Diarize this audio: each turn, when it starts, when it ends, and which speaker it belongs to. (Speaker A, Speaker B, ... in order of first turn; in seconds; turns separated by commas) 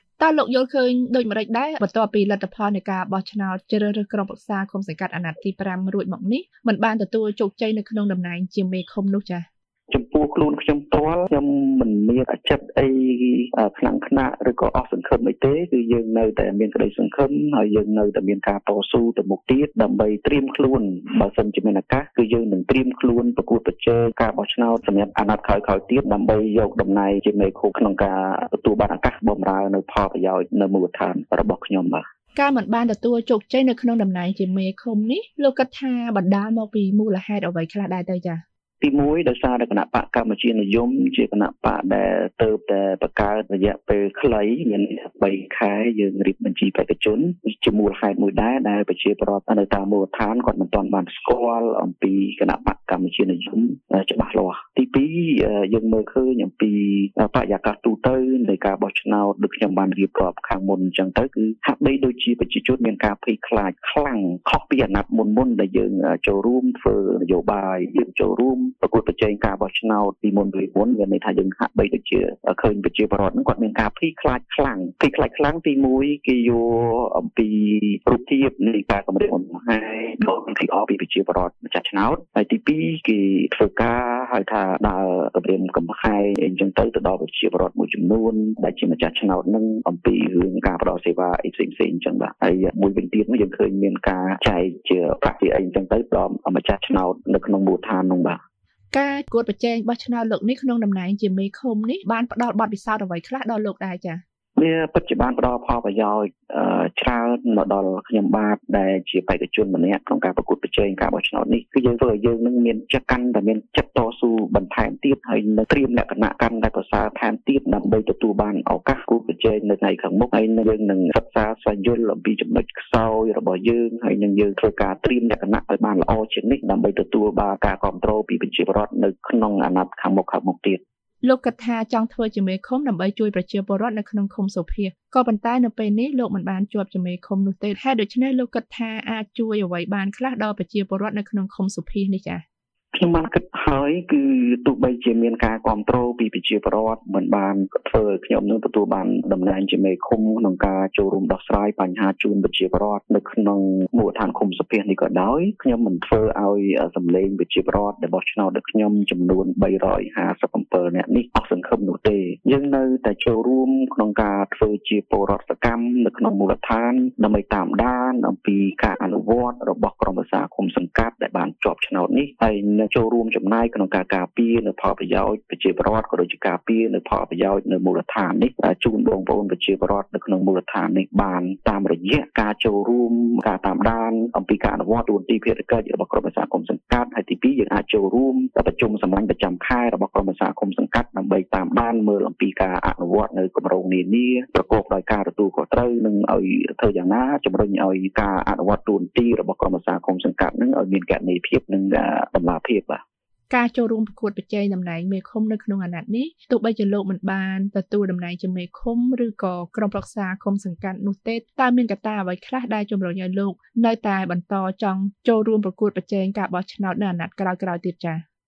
Speaker A: 0.2-9.5, Speaker B: 9.9-32.0, Speaker A: 32.4-38.4, Speaker B: 38.8-98.4, Speaker A: 98.9-104.2, Speaker B: 104.6-130.8, Speaker A: 131.2-142.4, Speaker B: 142.9-203.0, Speaker A: 203.5-218.2